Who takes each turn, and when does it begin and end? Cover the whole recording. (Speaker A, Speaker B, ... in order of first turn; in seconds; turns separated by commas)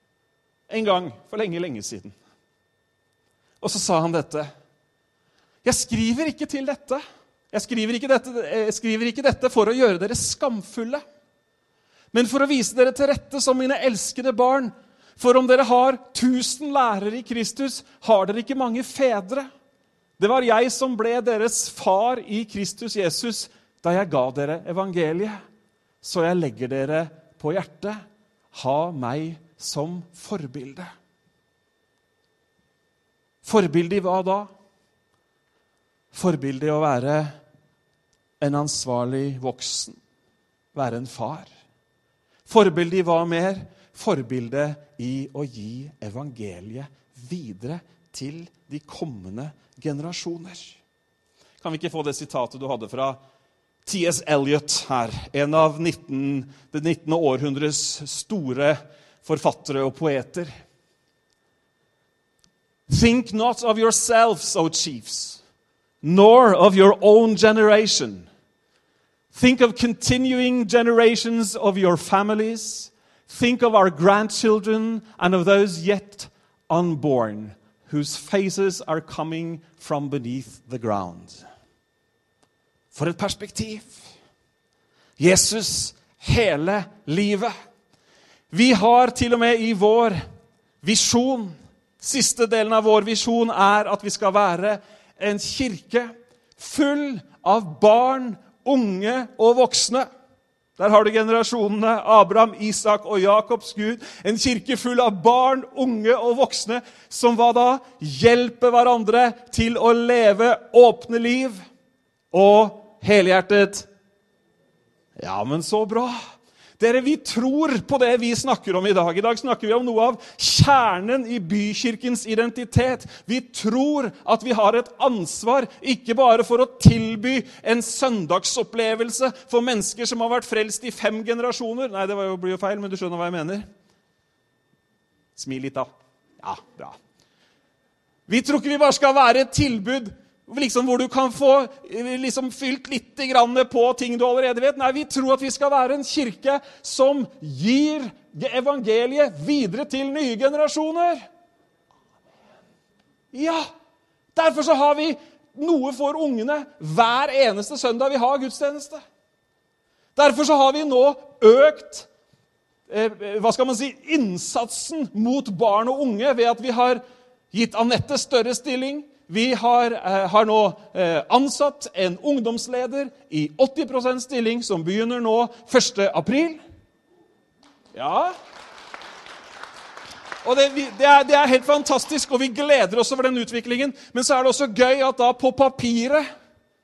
Speaker A: 0.7-2.1, Speaker A: 3.6-4.5, Speaker A: 5.6-11.0, Speaker A: 12.1-19.5, Speaker A: 20.2-25.4, Speaker A: 26.0-28.0, Speaker A: 28.5-30.9, Speaker A: 33.4-34.5, Speaker A: 36.1-37.3, Speaker A: 38.4-40.0, Speaker A: 40.7-41.5, Speaker A: 42.5-50.8, Speaker A: 51.6-53.2, Speaker A: 53.8-60.5, Speaker A: 62.9-65.4, Speaker A: 66.0-68.3, Speaker A: 69.3-81.4, Speaker A: 82.9-84.0, Speaker A: 85.2-87.5, Speaker A: 88.5-90.2, Speaker A: 90.8-100.1, Speaker A: 100.8-111.6, Speaker A: 112.3-113.9, Speaker A: 115.2-116.2, Speaker A: 116.8-133.7, Speaker A: 135.3-137.0, Speaker A: 138.3-151.2, Speaker A: 153.3-153.7, Speaker A: 154.3-159.0, Speaker A: 160.2-162.1, Speaker A: 162.9-176.6, Speaker A: 177.9-178.3, Speaker A: 180.4-186.3